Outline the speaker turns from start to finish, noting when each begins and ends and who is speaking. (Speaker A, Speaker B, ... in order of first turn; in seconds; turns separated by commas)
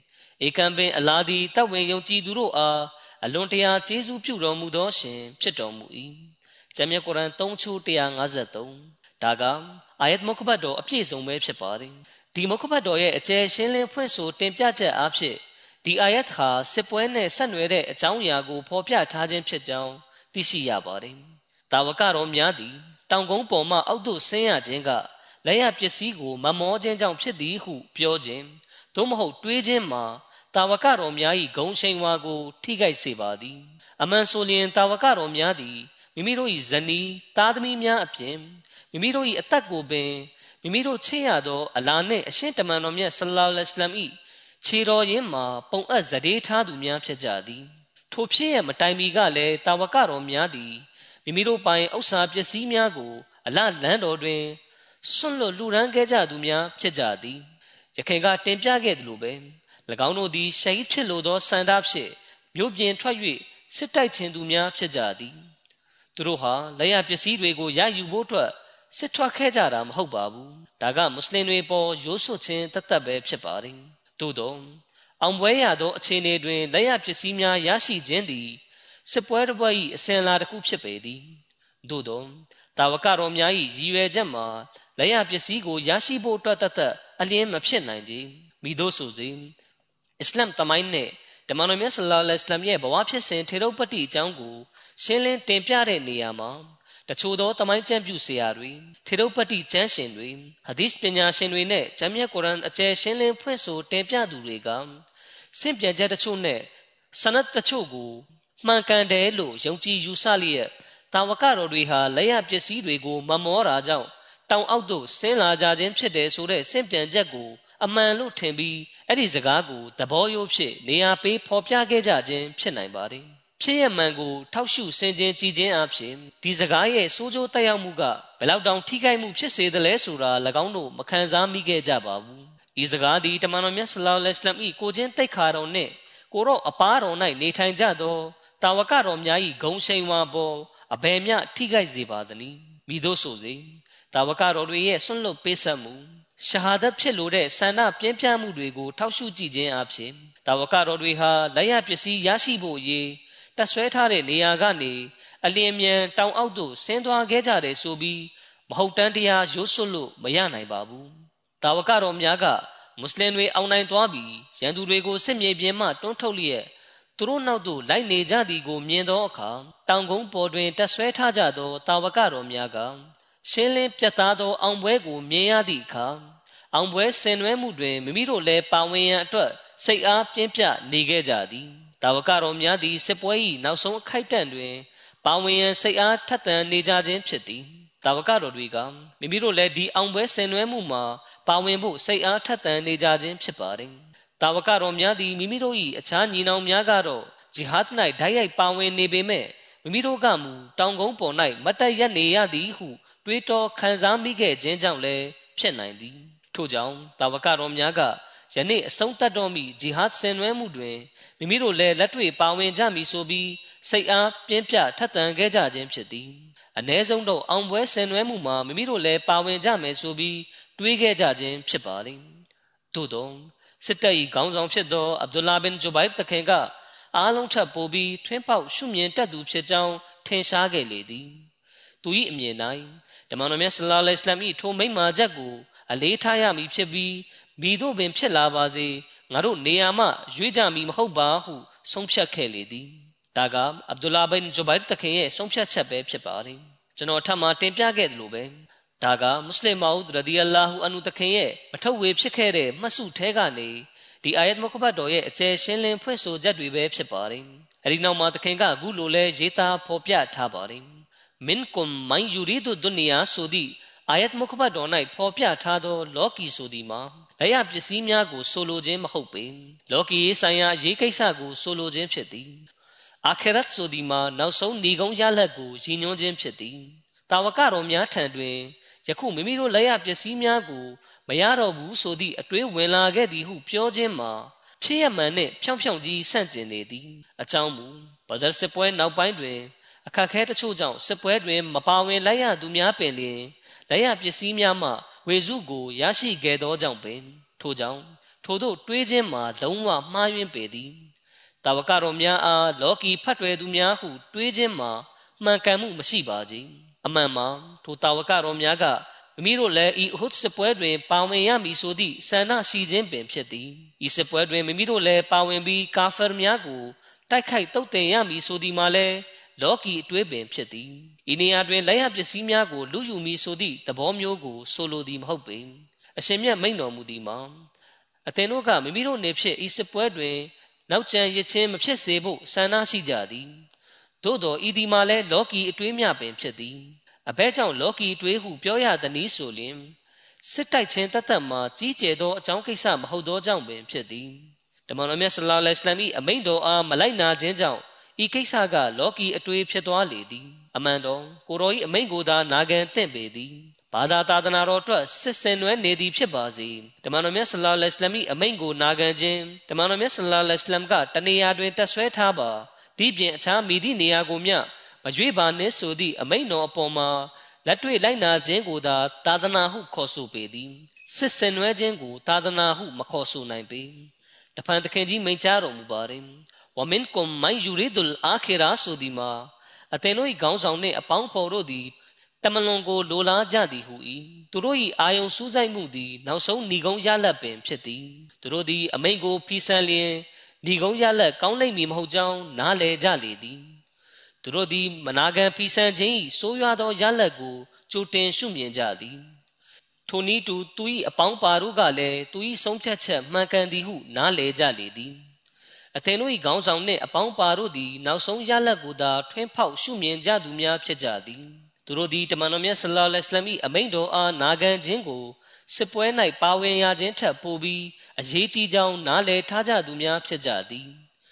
Speaker A: 0.4-57.4, Speaker A: 58.0-65.3, Speaker A: 66.2-81.2, Speaker A: 81.8-89.5, Speaker A: 90.2-105.0, Speaker A: 105.5-161.1, Speaker A: 161.6-176.2, Speaker A: 176.7-222.2, Speaker A: 222.9-231.4, Speaker A: 232.0-260.9, Speaker A: 261.4-272.6, Speaker A: 273.3-301.1, Speaker A: 301.6-327.5, Speaker A: 328.3-333.5, Speaker A: 334.2-339.9, Speaker A: 340.4-393.6, Speaker A: 394.4-399.2, Speaker A: 400.1-405.2, Speaker A: 406.0-420.9